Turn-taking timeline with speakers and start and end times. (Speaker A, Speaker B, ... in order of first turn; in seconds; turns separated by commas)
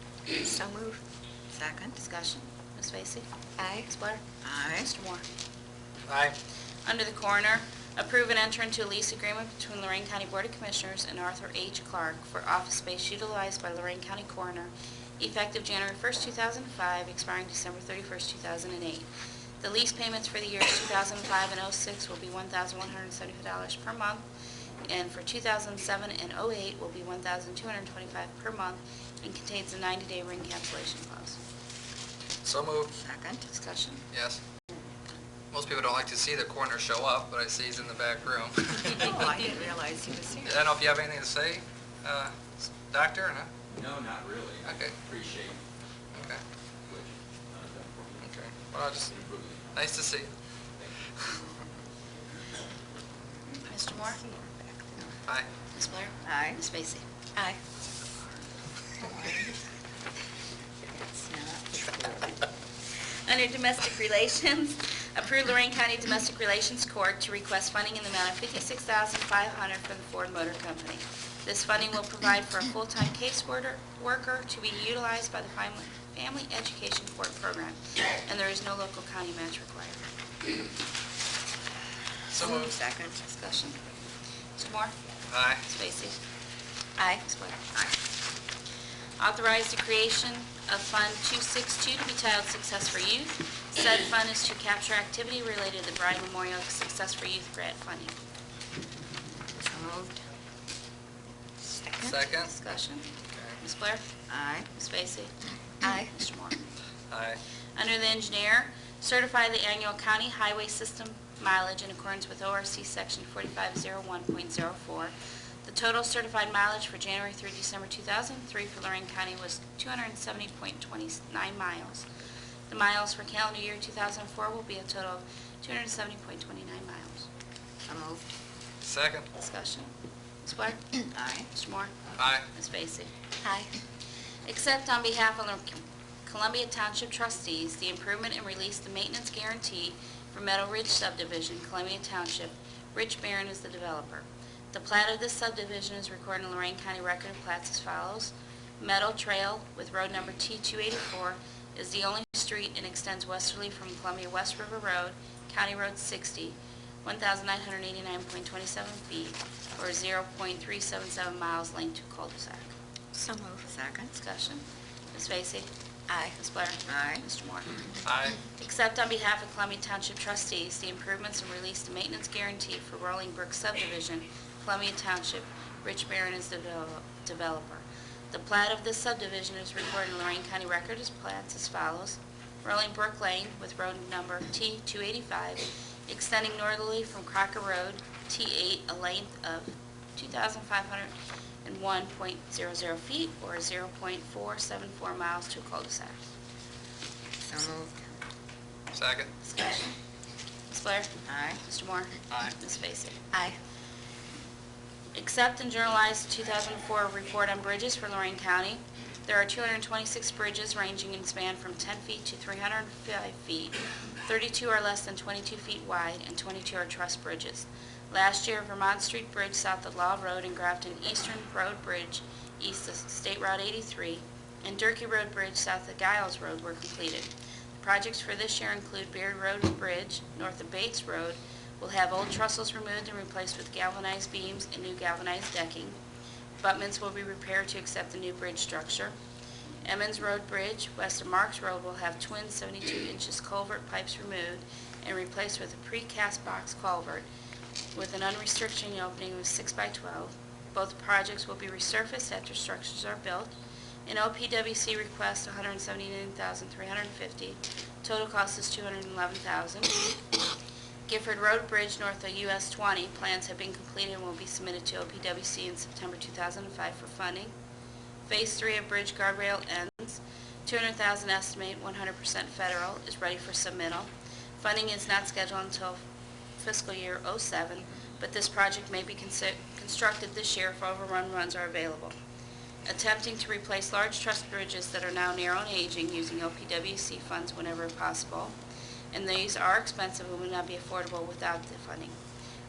Speaker A: 0.4-1.0, Speaker A: 1.5-2.0, Speaker B: 2.0-4.2, Speaker A: 3.6-3.9, Speaker A: 4.4-4.9, Speaker B: 4.8-5.2, Speaker C: 6.1-6.3, Speaker B: 6.8-19.1, Speaker B: 19.6-24.2, Speaker B: 24.8-31.4, Speaker C: 32.4-32.9, Speaker A: 33.0-33.4, Speaker B: 33.5-34.0, Speaker C: 34.1-34.4, Speaker C: 35.5-39.2, Speaker A: 38.9-40.5, Speaker C: 40.4-43.5, Speaker D: 43.7-45.6, Speaker C: 44.6-45.0, Speaker C: 46.1-46.4, Speaker D: 46.9-48.3, Speaker C: 48.2-49.1, Speaker D: 48.9-50.0, Speaker C: 49.7-50.3, Speaker B: 53.7-54.2, Speaker A: 54.2-55.1, Speaker B: 55.7-57.0, Speaker A: 56.2-56.6, Speaker A: 59.0-59.5, Speaker A: 60.9-62.3, Speaker B: 63.2-80.0, Speaker A: 82.3-83.2, Speaker C: 82.3-82.7, Speaker B: 83.2-83.8, Speaker B: 84.5-84.9, Speaker C: 85.3-85.6, Speaker B: 85.7-86.2, Speaker A: 87.0-87.9, Speaker B: 87.2-87.6, Speaker B: 89.2-98.1, Speaker A: 99.6-100.2, Speaker A: 101.6-102.2, Speaker C: 102.0-102.5, Speaker B: 102.4-104.0, Speaker A: 104.3-104.7, Speaker B: 104.7-105.3, Speaker A: 105.8-106.1, Speaker B: 106.1-106.6, Speaker C: 107.1-107.4, Speaker B: 107.8-115.1, Speaker B: 115.6-122.0, Speaker B: 122.7-127.3, Speaker A: 127.9-128.2, Speaker C: 128.8-129.3, Speaker B: 129.4-129.9, Speaker B: 130.4-130.9, Speaker A: 131.1-131.5, Speaker B: 131.5-131.9, Speaker C: 132.2-132.4, Speaker B: 132.5-133.1, Speaker A: 133.4-133.7, Speaker B: 134.4-162.7, Speaker A: 163.1-164.1, Speaker B: 164.1-165.7, Speaker A: 166.1-166.3, Speaker B: 166.3-167.7, Speaker A: 166.9-167.2, Speaker C: 168.0-168.4, Speaker B: 168.6-196.2, Speaker A: 197.4-198.0, Speaker C: 198.9-199.3, Speaker B: 199.4-199.9, Speaker B: 200.7-203.2, Speaker A: 201.2-201.6, Speaker B: 205.2-236.0, Speaker B: 236.6-239.1, Speaker B: 239.8-247.3, Speaker B: 247.9-253.5, Speaker B: 254.1-260.1, Speaker B: 261.1-267.5, Speaker B: 268.3-274.1, Speaker B: 274.6-276.0, Speaker B: 276.6-282.1, Speaker B: 282.9-288.6, Speaker B: 289.1-292.2